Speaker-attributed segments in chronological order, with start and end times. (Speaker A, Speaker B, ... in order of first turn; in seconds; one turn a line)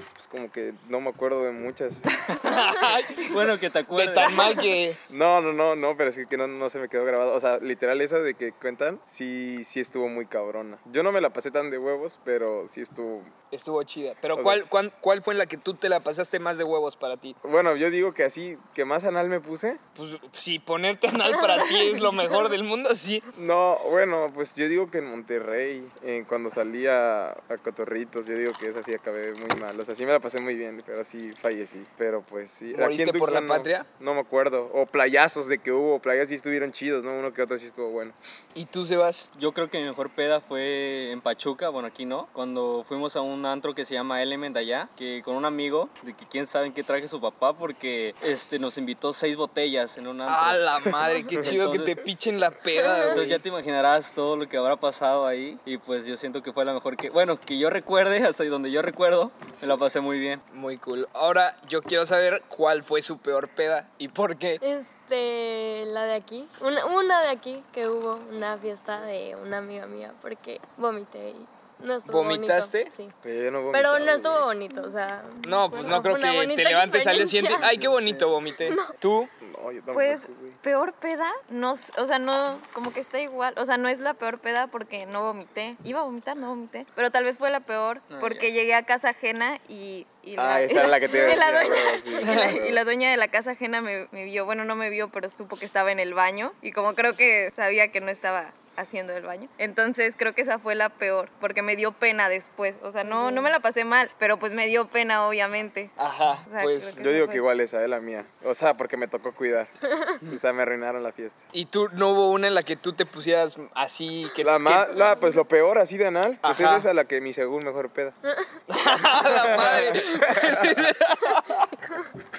Speaker A: 0.2-2.3
Speaker B: 2.4-3.4
Speaker C: 3.2-4.6
Speaker B: 3.9-5.0
Speaker D: 4.2-4.6
Speaker A: 5.1-13.3
Speaker B: 13.5-17.4
Speaker A: 14.3-14.8
Speaker A: 17.4-19.8
Speaker B: 19.9-23.3
Speaker E: 21.6-22.2
Speaker A: 23.4-38.2
Speaker B: 32.7-33.9
Speaker B: 38.5-39.3
Speaker C: 39.4-50.9
Speaker B: 50.3-53.4
Speaker A: 51.4-51.6
Speaker C: 51.4-52.0
Speaker C: 52.9-60.4
Speaker B: 60.5-64.6
Speaker E: 64.6-73.1
Speaker B: 72.1-72.9
Speaker A: 73.2-74.5
Speaker E: 73.7-77.7
Speaker B: 75.4-79.3
Speaker A: 77.6-78.3
Speaker E: 78.7-78.9
Speaker A: 79.4-80.6
Speaker D: 79.9-106.0
Speaker C: 88.1-88.5
Speaker A: 90.4-92.8
Speaker B: 92.3-92.5
Speaker E: 103.0-103.5
Speaker B: 106.0-107.1
Speaker D: 106.5-107.4
Speaker A: 107.0-111.4
Speaker B: 111.5-114.9
Speaker A: 114.4-118.2
Speaker B: 116.4-116.9
Speaker B: 118.7-121.8
Speaker A: 119.3-120.9